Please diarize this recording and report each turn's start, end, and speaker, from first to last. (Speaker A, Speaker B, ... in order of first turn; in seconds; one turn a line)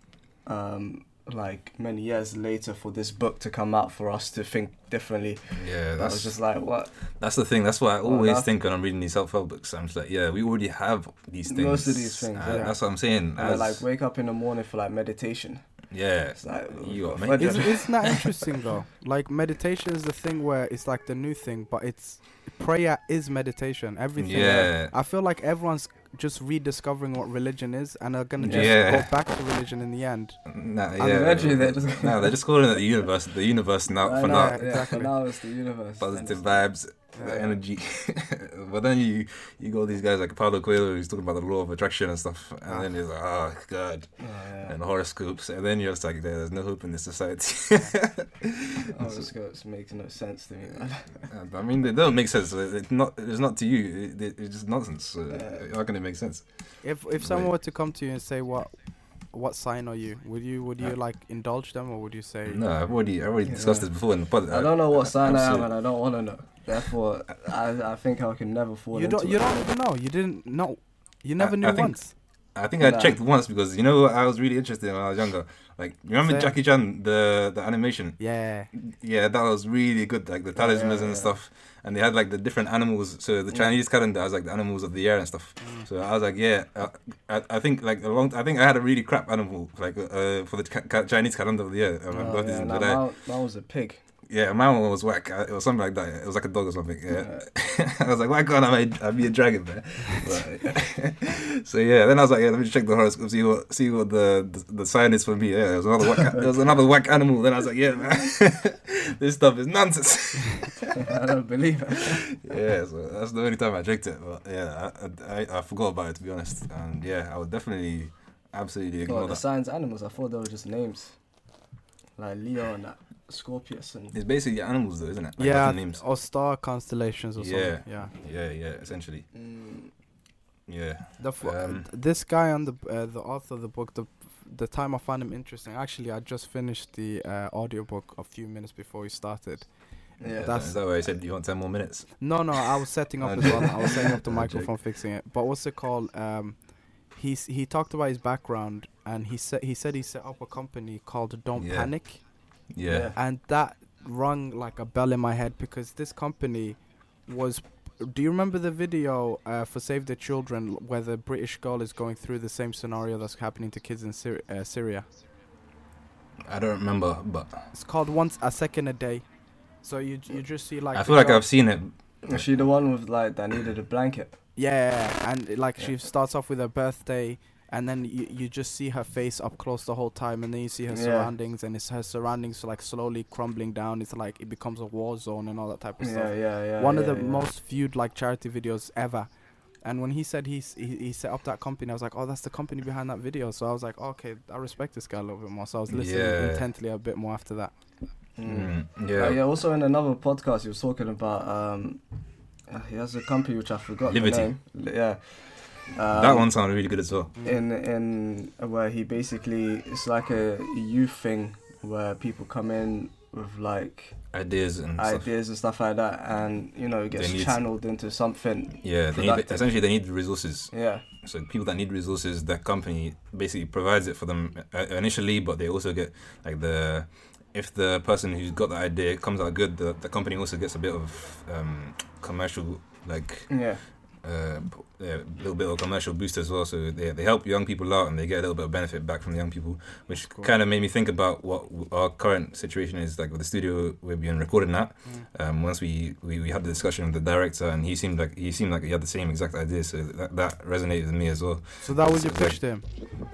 Speaker A: 0.5-7.2
Speaker B: 5.5-6.4
Speaker B: 7.0-13.8
Speaker A: 8.0-8.5
Speaker A: 11.5-15.8
Speaker C: 12.4-12.7
Speaker B: 15.9-18.2
Speaker A: 16.3-18.2
Speaker C: 17.4-30.4
Speaker B: 24.2-24.9
Speaker A: 28.4-28.7
Speaker B: 28.5-29.2
Speaker B: 30.4-35.1
Speaker A: 31.0-32.4
Speaker A: 34.0-36.7
Speaker C: 34.2-35.1
Speaker B: 36.0-49.3
Speaker C: 37.1-37.4
Speaker A: 44.2-44.8
Speaker A: 48.9-51.3
Speaker B: 51.3-57.5
Speaker A: 55.3-55.6
Speaker C: 56.8-62.6
Speaker B: 62.5-65.7
Speaker A: 63.5-69.6
Speaker C: 68.9-72.1
Speaker B: 71.4-93.0
Speaker A: 72.8-73.2
Speaker C: 76.2-76.5
Speaker C: 78.2-78.7
Speaker A: 80.5-81.3
Speaker C: 85.6-85.9
Speaker A: 92.1-94.0
Speaker B: 94.3-110.8
Speaker A: 97.1-97.5
Speaker A: 110.9-112.3
Speaker B: 112.4-119.4
Speaker A: 119.0-121.2
Speaker A: 122.2-124.2
Speaker B: 124.1-126.0
Speaker C: 125.4-128.1
Speaker B: 127.3-129.2
Speaker A: 129.3-129.9
Speaker B: 130.7-131.9
Speaker C: 131.2-140.8
Speaker A: 140.2-140.5
Speaker B: 140.3-142.6
Speaker C: 142.2-152.2
Speaker B: 143.2-144.8
Speaker B: 151.6-151.9
Speaker B: 152.7-153.1
Speaker A: 152.9-153.2
Speaker C: 153.1-165.1
Speaker B: 166.4-167.7
Speaker C: 167.7-169.2
Speaker C: 169.8-171.4
Speaker B: 170.9-172.5
Speaker A: 172.3-174.3
Speaker C: 174.6-197.7
Speaker A: 180.9-181.3
Speaker A: 186.0-187.4
Speaker B: 195.9-196.7
Speaker A: 198.4-202.0
Speaker B: 198.4-199.4
Speaker A: 202.7-206.5
Speaker B: 204.1-204.5
Speaker B: 206.1-207.3
Speaker A: 207.4-214.3
Speaker B: 214.3-215.3
Speaker A: 214.9-219.8
Speaker B: 217.1-217.6
Speaker B: 218.8-252.8
Speaker A: 220.7-221.0
Speaker A: 233.5-233.9
Speaker C: 240.2-240.5
Speaker C: 251.8-252.9